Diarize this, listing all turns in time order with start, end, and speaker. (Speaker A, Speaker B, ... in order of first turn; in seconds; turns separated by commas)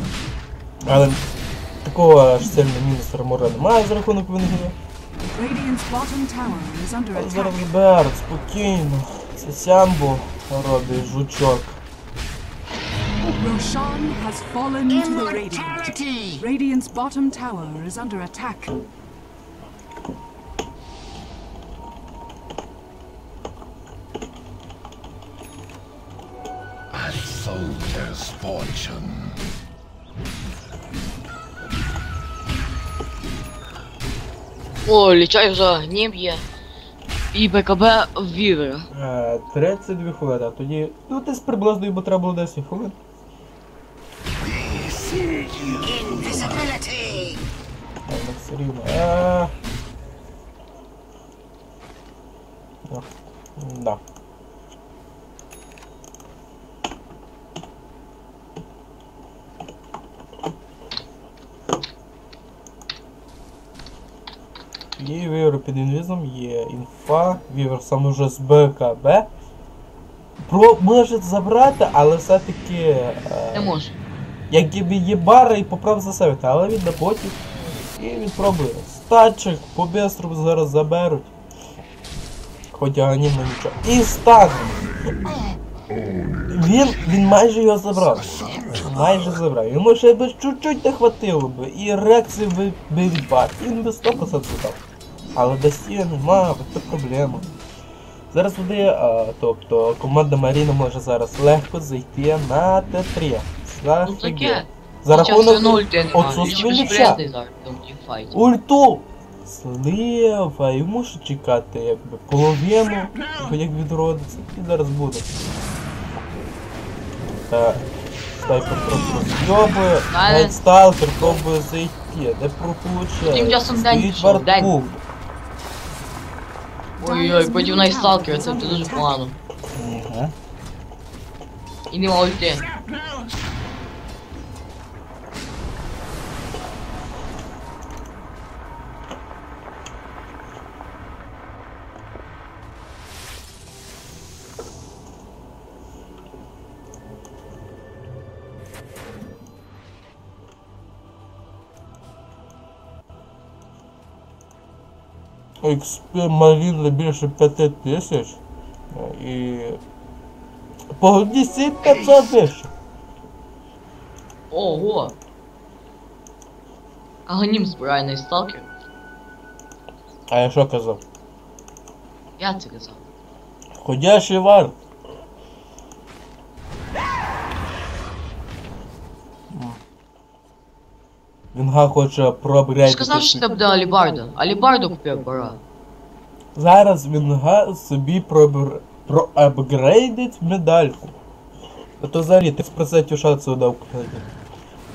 Speaker A: 0.8-1.2, Speaker A: 1.8-4.7, Speaker B: 5.3-7.6, Speaker A: 7.1-11.8, Speaker B: 13.4-18.7, Speaker C: 15.0-16.4, Speaker C: 26.9-29.4, Speaker D: 34.9-36.4, Speaker D: 37.3-38.9, Speaker A: 38.9-43.0, Speaker C: 44.4-47.4, Speaker A: 48.1-49.5, Speaker A: 52.9-54.0, Speaker A: 65.0-69.3, Speaker A: 70.4-73.7, Speaker D: 73.5-73.9, Speaker A: 74.5-77.4, Speaker A: 78.0-81.3, Speaker A: 82.7-84.9, Speaker A: 86.5-94.8, Speaker C: 88.0-89.4, Speaker A: 95.3-97.5, Speaker A: 98.3-107.2, Speaker D: 104.0-108.3, Speaker A: 108.3-115.3, Speaker A: 117.5-117.9, Speaker A: 118.4-125.0, Speaker D: 120.1-120.5, Speaker D: 123.3-124.7, Speaker B: 127.0-129.2, Speaker D: 127.0-129.3, Speaker A: 129.8-130.3, Speaker D: 131.9-132.6, Speaker A: 155.6-158.4, Speaker A: 158.9-159.8, Speaker A: 160.9-162.7, Speaker D: 164.5-165.2, Speaker D: 167.2-168.7, Speaker A: 170.3-171.0, Speaker D: 172.4-173.0, Speaker A: 173.8-174.7, Speaker A: 179.5-179.8, Speaker A: 181.5-183.4, Speaker D: 182.8-185.6, Speaker A: 186.5-191.2, Speaker A: 192.0-194.3